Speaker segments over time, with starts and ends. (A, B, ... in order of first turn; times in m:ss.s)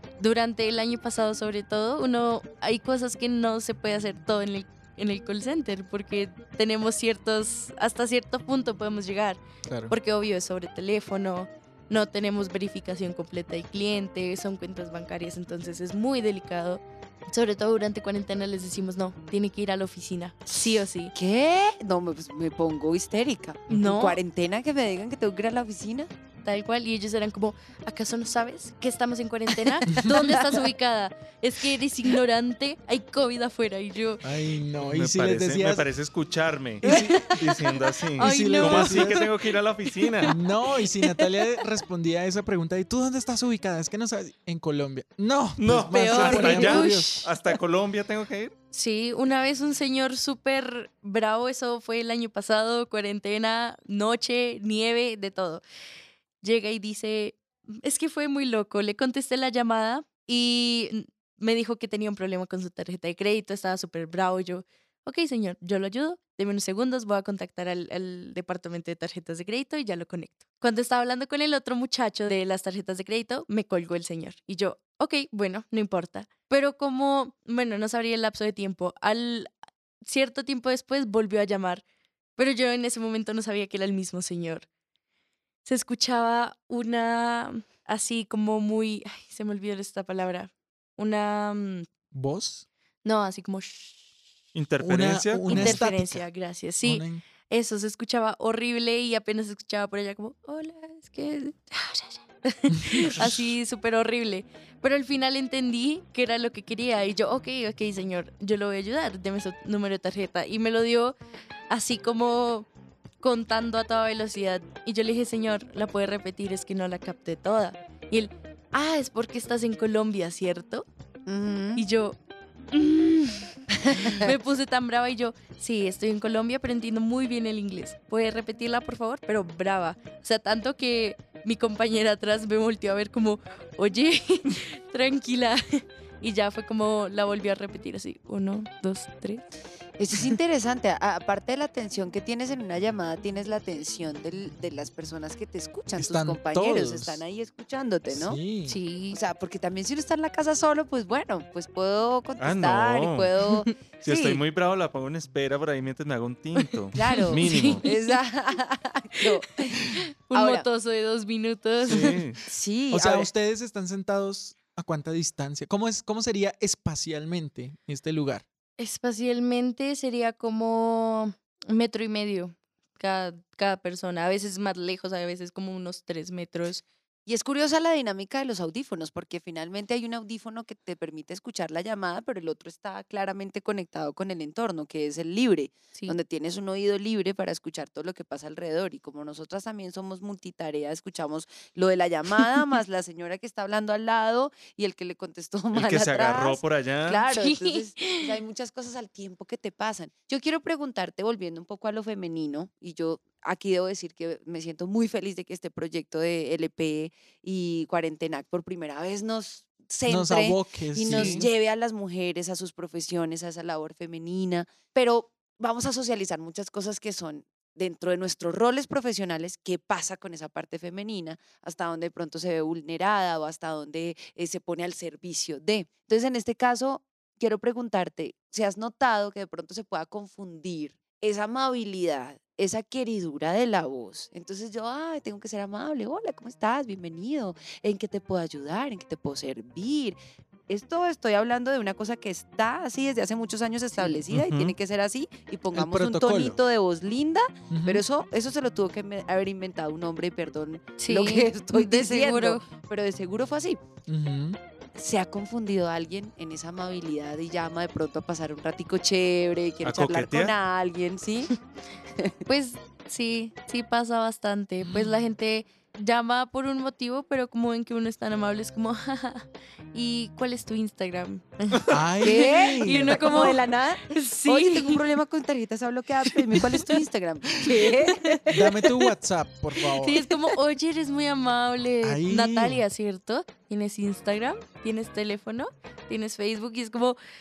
0:00.2-0:21.1 A
0:09.6-0:09.9 B
0:21.1-0:26.1 C
0:23.7-0:24.2 A
0:26.4-0:34.2 A
0:34.2-0:35.8 B
0:34.8-0:40.4 D
0:36.8-0:37.4 B
0:36.8-0:41.6 A
0:38.2-0:39.2 B
0:40.2-0:47.3 B
0:45.6-0:48.5 D
0:45.9-0:47.3 A
0:48.7-0:55.6 A
0:56.4-1:19.5 A
1:20.0-1:21.8 A
1:22.4-1:24.6 A
1:25.6-1:31.9 A
1:32.1-1:32.6 B
1:33.0-1:34.0 A
1:34.5-1:35.8 D
1:34.8-1:36.3 B
1:35.4-1:51.2 A
1:36.8-1:37.2 B
1:42.9-1:43.3 B
1:51.7-1:52.7 A
1:53.2-2:00.8 A
2:01.3-2:01.8 C
2:01.8-2:02.2 A
2:02.7-2:19.4 A
2:03.9-2:04.2 C
2:20.0-2:28.4 C
2:26.0-2:27.2 B
2:28.1-2:28.8 B
2:28.6-2:29.2 A
2:29.1-2:34.4 C
2:32.4-2:33.3 D
2:34.0-2:37.8 D
2:36.9-2:39.5 C
2:37.0-2:38.2 A
2:39.2-2:42.2 A
2:40.3-2:40.7 C
2:41.8-2:42.4 D
2:42.4-2:43.3 C
2:42.9-2:48.4 B
2:48.8-2:56.8 A
2:57.2-4:00.2 C
3:15.7-3:17.2 D
3:17.3-3:18.4 A
3:30.1-3:31.5 B
3:31.1-3:31.4 D
4:00.7-4:13.8 C
4:04.0-4:04.2 A
4:04.3-4:04.7 D
4:05.7-4:06.6 B
4:07.7-4:08.0 B
4:11.0-4:12.6 A
4:14.1-4:14.6 B
4:15.0-4:21.5 C
4:19.8-4:20.5 D
4:22.5-4:35.0 A
4:24.9-4:25.1 B
4:31.9-4:33.5 B
4:32.2-4:38.4 C
4:36.5-4:37.0 A
4:37.8-4:38.9 A
4:38.5-4:40.2 B
4:39.9-4:47.2 A
4:42.0-4:42.8 B